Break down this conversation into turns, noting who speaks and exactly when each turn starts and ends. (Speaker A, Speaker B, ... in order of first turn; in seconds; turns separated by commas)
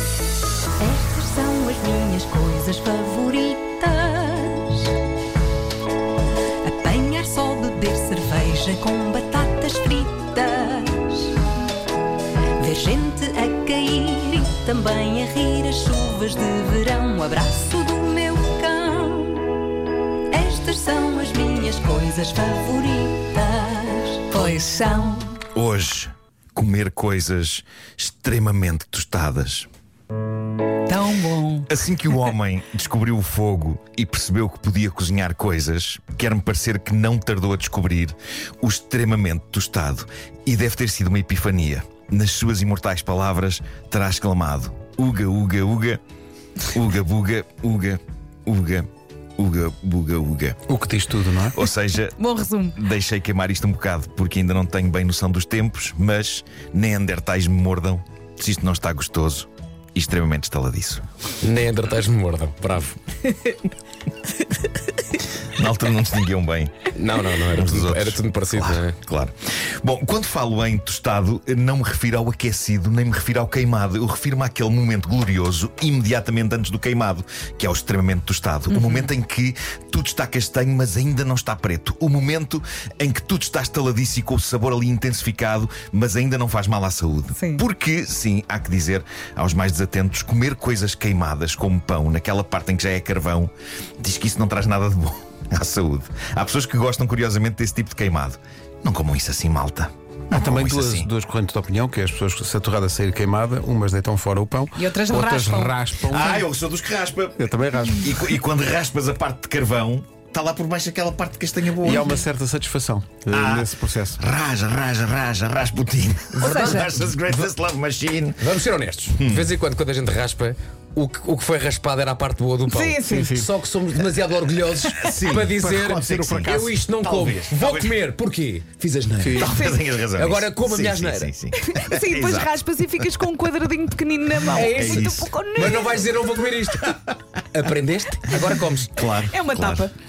Speaker A: 0.8-4.9, Speaker A: 6.6-11.4, Speaker A: 12.6-19.5, Speaker A: 20.3-24.4, Speaker B: 24.3-25.4, Speaker C: 25.5-29.7, Speaker B: 30.9-31.7, Speaker C: 31.7-46.0, Speaker C: 46.7-50.6, Speaker D: 50.7-51.6, Speaker C: 51.5-52.2, Speaker B: 52.2-52.8, Speaker C: 52.7-61.0, Speaker E: 61.4-63.6, Speaker C: 65.6-66.9, Speaker E: 67.0-69.0, Speaker C: 67.5-101.1, Speaker B: 78.7-79.1, Speaker B: 87.4-87.6, Speaker D: 100.3-106.5, Speaker B: 104.8-105.8, Speaker C: 106.1-107.4, Speaker D: 107.4-108.2, Speaker C: 108.0-112.2, Speaker D: 111.8-114.2, Speaker C: 113.3-118.6, Speaker E: 116.3-117.5, Speaker B: 116.4-117.0, Speaker E: 118.4-129.5, Speaker C: 119.1-119.5, Speaker B: 122.6-123.3, Speaker D: 123.0-123.5, Speaker C: 124.9-128.0, Speaker D: 125.4-126.8, Speaker D: 129.2-129.6, Speaker C: 129.3-132.7, Speaker B: 129.4-129.8, Speaker E: 130.2-131.3, Speaker B: 131.6-136.0, Speaker E: 134.6-135.2, Speaker C: 134.6-135.8, Speaker A: 135.6-136.4, Speaker E: 135.9-139.1, Speaker C: 138.9-139.9, Speaker B: 139.3-139.9